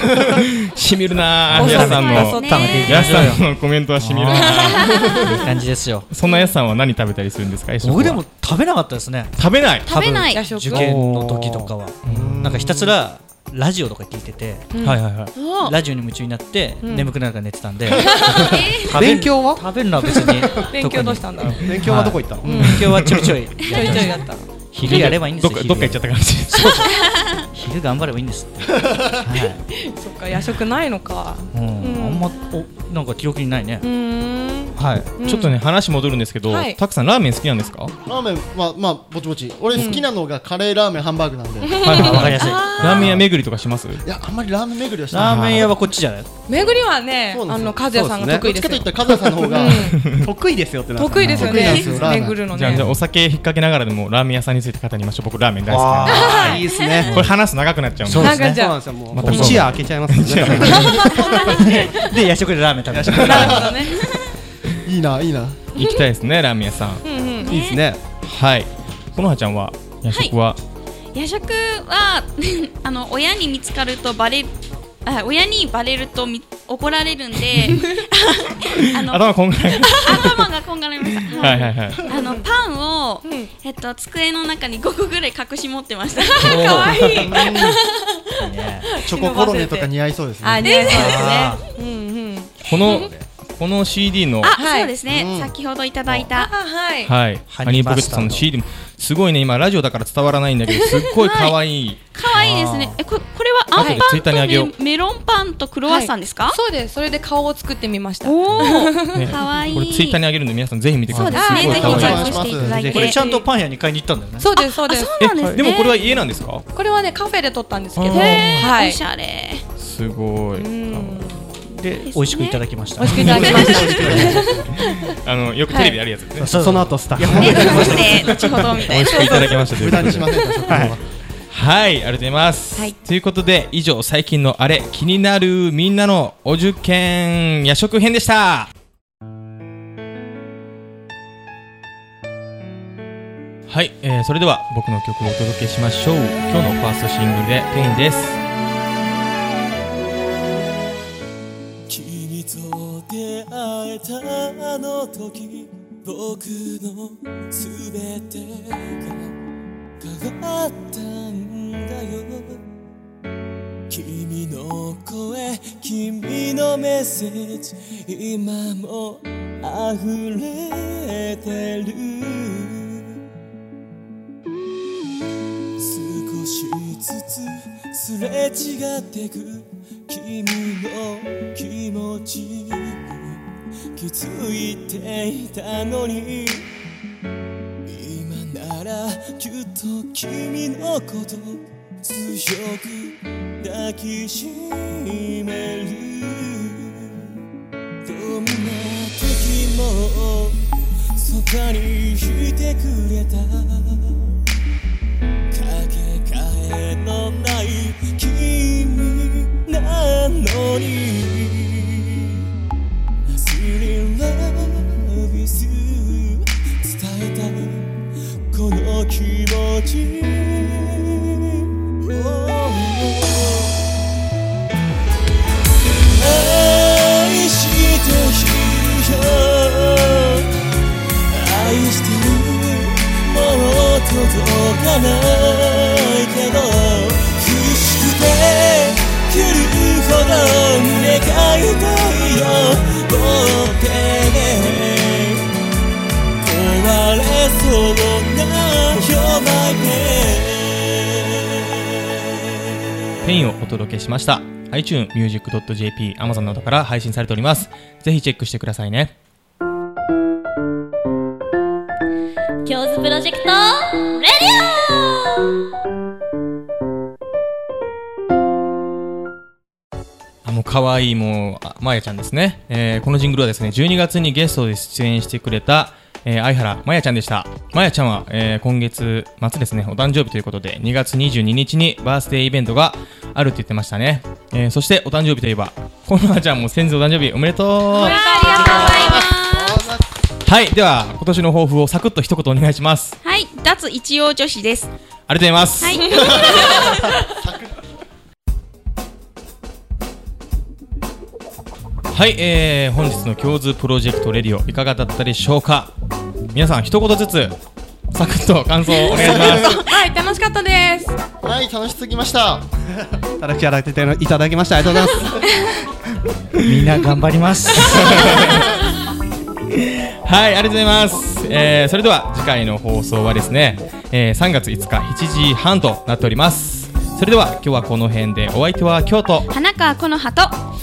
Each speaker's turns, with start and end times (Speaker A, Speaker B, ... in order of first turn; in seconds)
Speaker A: 0.3-5.1, 6.1-8.2, 9.4-9.9, 12.0-12.4, 14.8-15.3, 22.6-23.4, 24.8-26.9, 35.2-37.9, 41.8-44.0, 45.2-45.7, 49.8-50.3, 52.5-56.4, 57.1-58.5, 59.1-61.1, 65.7-67.0, 68.2-70.6, 78.8-80.3, 81.3-82.0, 92.6-94.5, 97.0-102.0, 103.7-104.7, 108.5-112.4, 115.2-116.6, 118.0-118.5, 119.8-121.3, 125.2-126.6, 128.9-130.3, 131.5-138.7, 143.7-148.4, 253.2-259.1, 270.4-288.1, 290.4-293.2, 295.3-296.1, 302.1-305.9, 306.5-307.6, 308.1-309.8, 316.6-316.9, 317.7-318.8, 319.8-329.5
Speaker B: 1.5-4.7, 5.2-6.1, 7.8-9.3, 9.8-14.7, 15.5-26.1, 27.5-29.6, 31.5-33.9, 34.7-35.1, 41.9-43.2, 45.1-46.3, 51.2-51.7, 55.7-57.3, 58.0-59.8, 61.6-63.7, 86.4-87.3, 88.4-88.9, 90.8-91.6, 92.7-93.2, 97.5-98.5, 102.3-103.0, 111.8-114.5, 115.4-115.6, 118.1-118.7, 121.7-124.5, 126.4-128.6, 130.7-130.9, 316.6-318.4
Speaker C: 1.5-3.2, 4.3-5.3, 6.2-6.5, 10.3-10.9, 14.7-15.0, 16.8-17.1, 18.0-18.6, 20.6-21.7, 22.4-23.2, 23.7-24.5, 26.6-26.9, 29.7-32.3, 33.8-35.5, 36.5-36.8, 39.7-40.0, 41.6-42.4, 46.5-50.0, 51.0-52.9, 56.0-56.6, 58.2-59.6, 60.6-62.2, 63.1-64.1, 65.8-66.0, 67.0-67.5, 77.8-78.0, 81.3-82.5, 83.2-83.5, 86.2-88.4, 88.9-93.1, 94.4-94.9, 96.3-97.1, 100.7-101.1, 103.8-104.0, 105.8-109.3, 111.1-112.4, 114.4-115.1, 116.7-119.0, 120.5-121.5, 123.0-125.1, 125.7-126.0, 130.3-130.7, 287.9-289.2, 296.0-297.2, 309.4-311.1
Speaker D: 2.3-2.9, 4.8-5.3, 9.8-10.4, 15.3-15.8, 18.3-19.1, 27.0-27.4, 42.4-43.1, 51.5-52.0, 56.5-57.0, 61.1-61.6, 67.4-67.8, 71.1-74.5, 75.0-86.9, 90.6-91.4, 94.5-96.5, 101.2-101.6, 102.1-106.6, 108.2-110.2, 111.1-113.4, 114.6-116.0, 118.1-119.6, 122.0-122.6, 123.4-124.2, 127.3-129.7, 287.9-289.9, 293.2-294.9, 295.8-296.9, 329.5-330.6
Speaker E: 10.7-12.8, 18.9-19.6, 21.6-22.7, 47.9-48.5, 50.1-51.8, 56.2-57.3, 58.5-61.2, 62.9-63.6, 67.4-68.0, 126.3-128.2, 130.7-130.9, 313.4-315.4
Speaker F: 28.9-29.2, 38.0-42.3, 44.0-45.9, 47.3-50.0, 51.2-52.5, 63.0-63.9, 64.8-65.7, 86.9-87.8, 89.0-90.7, 95.1-95.5, 111.3-113.2, 123.1-124.7, 129.6-131.0, 288.5-290.0, 296.1-297.7, 309.1-309.8, 311.4-312.7
Speaker G: 151.9-159.3, 160.0-162.6, 163.9-173.2, 175.8-183.4, 183.9-186.7, 187.9-197.3, 198.0-204.3, 205.5-212.4, 213.3-223.9, 226.1-230.5, 231.3-245.5, 246.4-253.2
Speaker H: 262.6-265.2